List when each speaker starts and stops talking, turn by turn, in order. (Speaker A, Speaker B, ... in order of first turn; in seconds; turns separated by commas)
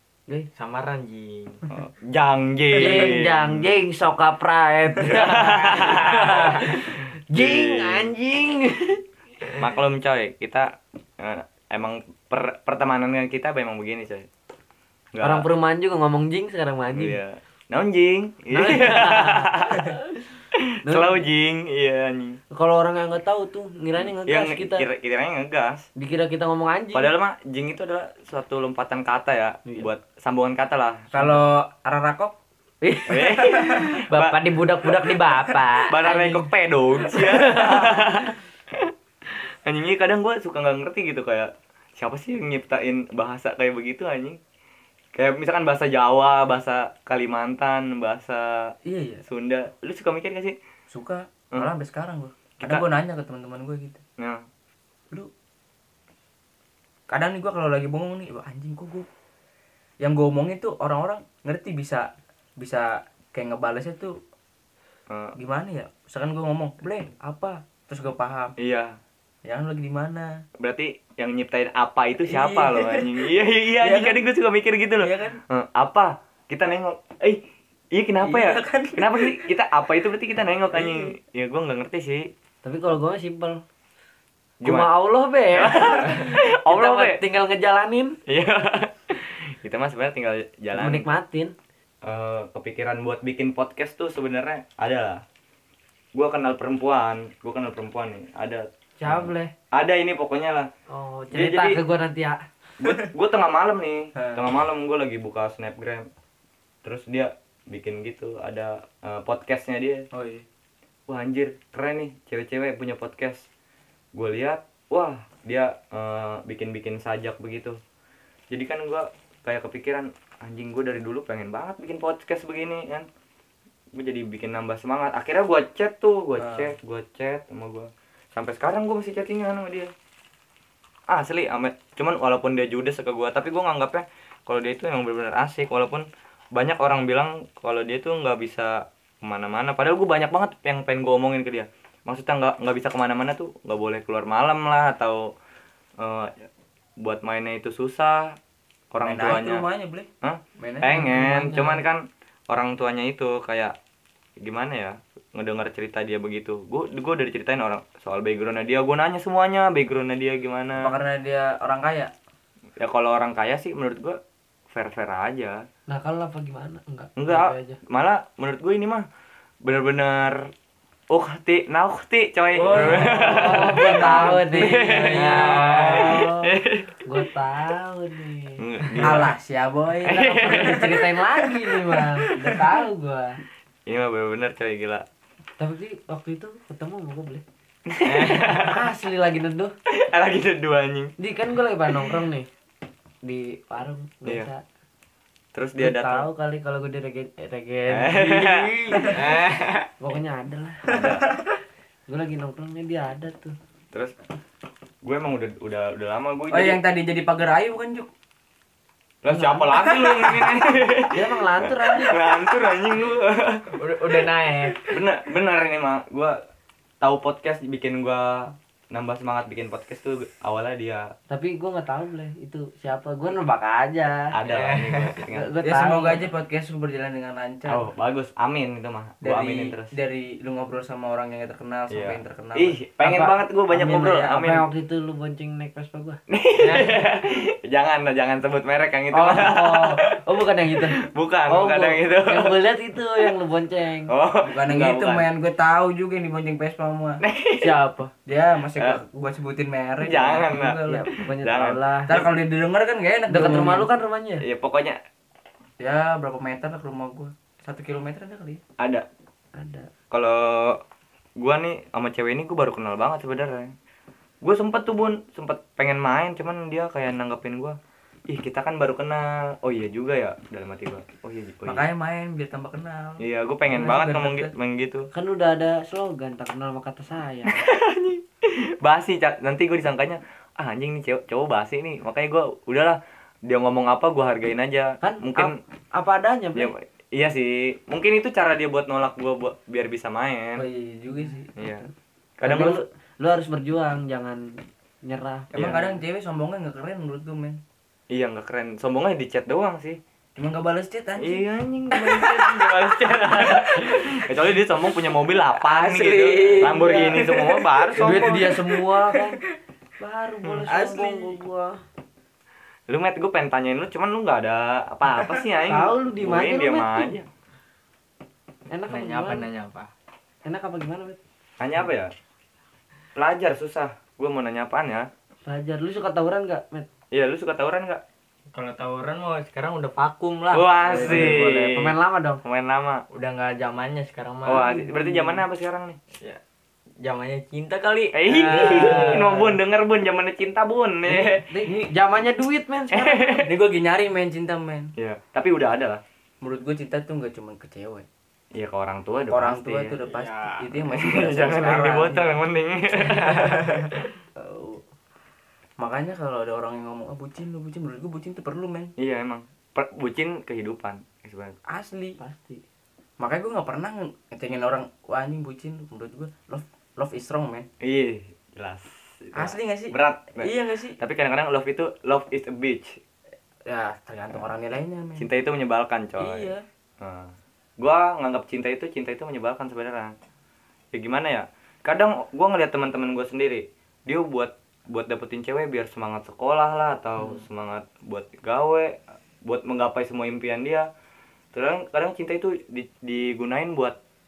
Speaker A: 0.6-1.6, Speaker B: 1.7-3.7, Speaker C: 2.8-9.0, Speaker B: 5.0-8.1, Speaker A: 5.8-6.4, Speaker B: 9.6-14.3, Speaker B: 15.1-15.5, Speaker C: 15.2-17.2, Speaker B: 16.9-20.0, Speaker C: 18.5-20.2, Speaker B: 20.5-22.4, Speaker C: 20.9-21.2, Speaker C: 22.5-24.9, Speaker B: 24.0-25.9, Speaker C: 26.0-27.1, Speaker B: 26.9-31.1, Speaker D: 31.1-32.4, Speaker C: 32.8-36.5, Speaker B: 33.1-44.4, Speaker D: 33.5-33.7, Speaker C: 37.0-38.3, Speaker B: 45.1-48.7, Speaker D: 48.9-49.2, Speaker B: 49.3-50.6, Speaker D: 50.9-54.0, Speaker B: 52.6-52.9, Speaker B: 54.2-54.5, Speaker D: 57.1-59.1, Speaker D: 60.0-64.2, Speaker B: 65.1-65.4, Speaker D: 65.4-68.5, Speaker B: 68.6-69.0, Speaker D: 69.5-70.4, Speaker B: 70.6-82.3, Speaker D: 72.2-74.2, Speaker D: 75.0-75.4, Speaker D: 78.2-79.5, Speaker D: 80.7-81.1, Speaker C: 82.6-83.6, Speaker B: 84.6-84.9, Speaker C: 84.6-88.2, Speaker B: 85.5-87.2, Speaker B: 88.3-91.1, Speaker C: 90.7-91.5, Speaker B: 92.0-95.2, Speaker B: 96.2-100.7, Speaker C: 99.0-99.5, Speaker C: 100.9-102.5, Speaker B: 101.3-101.8, Speaker B: 102.8-106.1, Speaker D: 104.2-104.5, Speaker B: 106.8-110.1, Speaker D: 110.1-110.5, Speaker B: 111.1-113.5, Speaker B: 114.1-117.8, Speaker B: 118.5-123.1, Speaker B: 124.0-129.9, Speaker D: 126.4-126.7, Speaker B: 131.1-145.3, Speaker B: 146.0-146.5, Speaker B: 147.0-148.4, Speaker B: 148.9-149.7, Speaker D: 149.0-151.6, Speaker B: 150.2-153.8, Speaker C: 151.1-151.8, Speaker B: 154.4-160.9, Speaker D: 160.8-162.1, Speaker B: 162.8-164.2, Speaker B: 164.7-165.6, Speaker C: 165.9-167.8, Speaker B: 167.2-169.1, Speaker B: 169.6-170.5, Speaker B: 171.1-177.2, Speaker D: 172.5-176.2, Speaker C: 172.8-176.5, Speaker C: 177.0-178.6, Speaker B: 178.6-179.3, Speaker D: 179.0-181.1, Speaker B: 180.0-182.6, Speaker C: 180.1-183.4, Speaker B: 183.9-185.1, Speaker C: 185.6-187.4, Speaker B: 187.9-188.9, Speaker C: 188.1-189.7, Speaker B: 189.9-191.1, Speaker C: 191.2-192.5, Speaker C: 193.2-194.6, Speaker B: 195.5-196.3, Speaker C: 195.8-199.2, Speaker B: 197.9-199.4, Speaker A: 199.1-199.9, Speaker C: 200.0-201.2, Speaker B: 200.9-201.2, Speaker D: 200.9-201.2, Speaker C: 202.1-203.6, Speaker B: 205.0-206.8, Speaker D: 206.5-208.1, Speaker B: 209.2-214.3, Speaker C: 209.3-210.3, Speaker C: 211.1-212.2, Speaker A: 213.7-215.0, Speaker B: 214.8-216.4, Speaker B: 217.0-221.1, Speaker C: 221.3-224.3, Speaker B: 224.3-225.5, Speaker A: 224.5-225.2, Speaker C: 225.3-226.2, Speaker D: 225.6-227.9, Speaker B: 227.7-229.9, Speaker D: 229.2-232.8, Speaker B: 231.9-234.7, Speaker C: 233.0-236.2, Speaker D: 233.7-234.3, Speaker B: 236.3-240.2, Speaker A: 236.6-236.9, Speaker C: 239.1-244.1, Speaker B: 240.7-242.6, Speaker B: 244.1-245.3, Speaker D: 244.4-247.2, Speaker B: 247.2-247.7, Speaker C: 247.6-248.1, Speaker D: 248.3-251.1, Speaker B: 248.8-249.0, Speaker B: 250.0-252.3, Speaker C: 250.9-252.1, Speaker D: 252.1-253.9, Speaker C: 253.3-254.4, Speaker B: 254.4-255.0, Speaker D: 255.8-258.6, Speaker B: 258.8-259.1, Speaker C: 259.6-259.9, Speaker B: 260.1-260.8, Speaker B: 261.4-263.7, Speaker B: 264.4-267.8, Speaker B: 268.3-271.9, Speaker D: 271.6-274.5, Speaker B: 273.2-275.1, Speaker C: 275.1-277.6, Speaker B: 277.5-285.6, Speaker C: 285.0-286.7, Speaker B: 286.6-290.6, Speaker D: 290.6-291.5, Speaker B: 291.6-292.8, Speaker C: 292.4-295.5, Speaker B: 295.5-295.9, Speaker D: 295.5-297.6, Speaker B: 298.1-300.0, Speaker D: 300.4-304.0, Speaker B: 301.2-308.5, Speaker D: 305.6-309.3, Speaker C: 308.0-309.4, Speaker C: 310.0-311.8, Speaker B: 310.4-310.7, Speaker D: 310.7-311.4, Speaker B: 312.9-317.3, Speaker C: 315.7-317.1, Speaker C: 318.7-319.5, Speaker A: 318.9-319.9, Speaker C: 320.4-321.2, Speaker B: 321.6-322.1, Speaker B: 323.2-325.1, Speaker C: 325.5-326.9, Speaker B: 327.1-328.0, Speaker A: 328.5-331.8, Speaker B: 330.5-333.0, Speaker D: 330.9-331.7, Speaker C: 331.8-332.4, Speaker A: 333.1-334.7, Speaker B: 334.4-336.0, Speaker C: 334.5-335.4, Speaker A: 337.0-339.5, Speaker B: 338.1-341.5, Speaker C: 338.5-339.3, Speaker C: 341.1-343.3, Speaker B: 342.9-343.5, Speaker D: 343.4-344.9, Speaker B: 345.0-346.0, Speaker D: 346.4-348.1, Speaker B: 348.6-350.0, Speaker D: 349.3-352.4, Speaker A: 350.1-350.6, Speaker B: 350.8-354.0, Speaker D: 353.2-354.8, Speaker D: 355.8-358.9, Speaker B: 359.0-361.6, Speaker D: 361.7-362.2, Speaker C: 362.2-362.6, Speaker D: 363.2-367.7, Speaker B: 367.8-373.0, Speaker D: 369.4-371.0, Speaker D: 373.7-375.3, Speaker B: 375.2-380.1, Speaker D: 376.2-376.6, Speaker B: 380.9-390.9, Speaker B: 391.5-394.0